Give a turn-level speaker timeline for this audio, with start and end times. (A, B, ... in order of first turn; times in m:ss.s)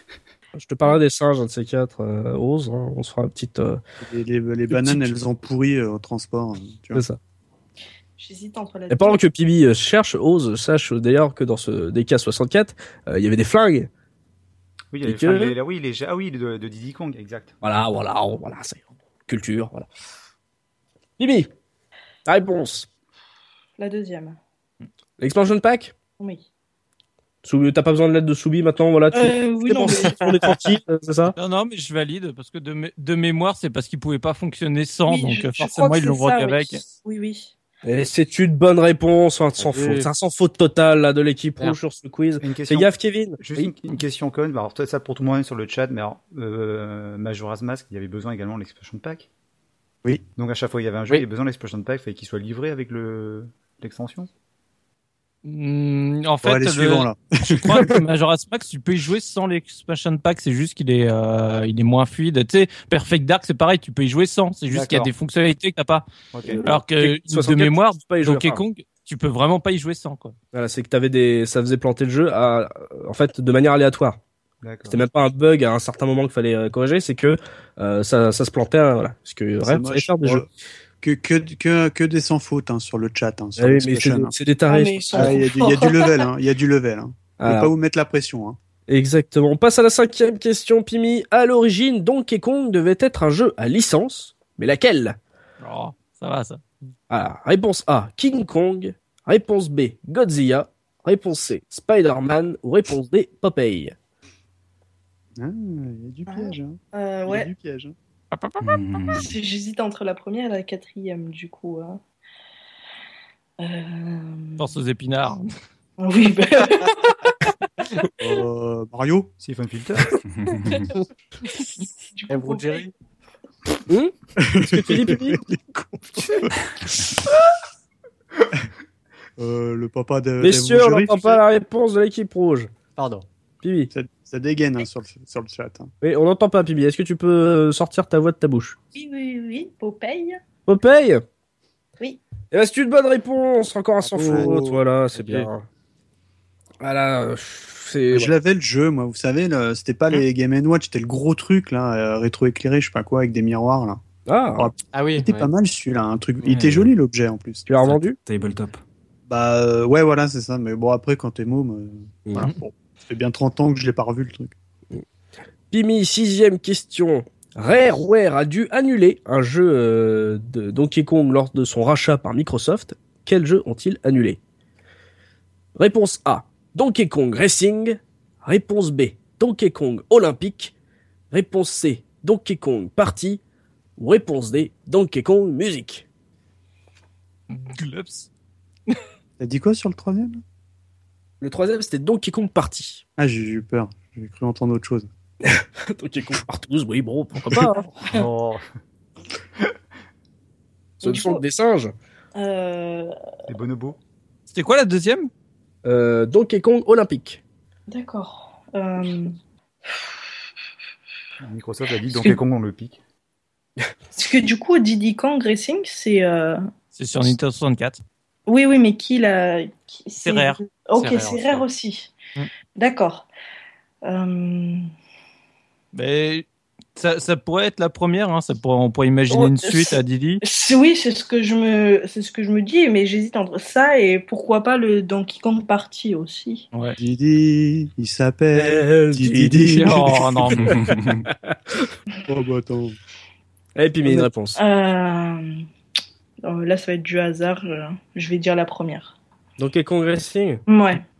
0:00.5-0:03.8 A
0:04.0-0:07.0 B
0:04.7-0:05.2 A
0:06.9-0:07.2 A
0:08.2-0:09.2 C
0:08.9-0:13.9 A
0:14.9-0:17.5 D
0:15.0-0:15.5 A
0:17.6-0:19.9 A
0:21.2-0:21.5 A
0:22.3-0:22.9 A
0:23.8-0:24.4 C
0:25.2-0:25.9 A
0:26.2-0:26.4 C
0:27.4-0:31.3 A
0:29.1-0:30.2 C
0:31.4-0:36.8 E
0:35.1-0:37.5 C
0:37.8-0:43.7 A
0:39.6-0:40.1 F
0:42.4-0:49.3 D
0:50.4-0:54.3 D
0:55.4-1:06.0 E
0:56.4-0:57.9 B
1:04.7-1:05.1 D
1:06.3-1:06.6 D
1:06.5-1:08.6 A
1:06.6-1:10.3 E
1:10.5-1:14.2 A
1:14.6-1:15.0 D
1:14.9-1:20.4 A
1:19.6-1:20.5 B
1:21.0-1:24.3 B
1:23.6-1:25.4 A
1:24.7-1:26.3 C
1:25.1-1:28.6 B
1:27.4-1:27.7 A
1:28.9-1:35.2 A
1:35.6-1:36.6 E
1:37.1-1:43.9 A
1:45.4-1:47.9 B
1:46.3-1:47.5 C
1:48.3-1:48.6 E
1:48.6-1:49.3 G
1:49.1-1:52.0 C
1:53.6-1:54.7 C
1:54.6-1:55.5 E
1:56.0-1:57.5 C
1:58.2-1:59.3 B
1:59.4-2:00.2 D
2:00.2-2:00.9 G
2:00.7-2:02.9 C
2:02.3-2:02.9 F
2:03.9-2:05.4 A
2:04.4-2:07.0 B
2:09.4-2:11.4 B
2:10.4-2:12.7 A
2:13.0-2:13.2 F
2:13.6-2:13.9 A
2:13.9-2:15.9 B
2:16.0-2:18.7 A
2:18.9-2:20.4 C
2:20.6-2:21.2 A
2:22.5-2:25.6 A
2:24.1-2:24.8 B
2:24.2-2:24.5 F
2:25.1-2:25.5 F
2:26.8-2:28.3 A
2:28.1-2:34.0 B
2:34.2-2:34.7 A
2:34.5-2:37.7 B
2:34.9-2:35.5 F
2:36.5-2:36.9 G
2:37.7-2:38.2 A
2:37.8-2:38.8 G
2:39.3-2:44.5 B
2:45.7-2:54.4 A
2:55.8-3:00.7 A
3:01.3-3:03.4 A
3:04.0-3:06.0 A
3:07.5-3:08.3 E
3:09.4-3:10.4 B
3:11.4-3:13.0 A
3:13.2-3:15.1 B
3:15.4-3:17.8 A
3:18.0-3:18.6 D
3:21.0-3:21.4 C
3:21.0-3:21.9 A
3:22.4-3:23.1 C
3:23.5-3:24.0 D
3:24.5-3:25.3 E
3:25.8-3:27.4 A
3:27.9-3:29.4 C
3:31.4-3:33.0 D
3:34.1-3:36.6 C
3:36.9-3:38.0 E
3:38.5-3:42.2 C
3:40.2-3:40.6 E
3:41.0-3:41.6 F
3:42.8-3:43.3 C
3:44.0-3:44.8 C
3:45.9-3:50.4 E
3:49.3-3:56.6 C
3:57.0-4:00.2 B
3:58.5-4:01.9 A
3:59.6-4:00.8 E
4:00.6-4:01.3 G
4:02.3-4:03.0 B
4:03.8-4:04.6 A
4:04.5-4:05.5 C
4:06.4-4:09.1 C
4:09.6-4:10.6 A
4:10.7-4:11.0 C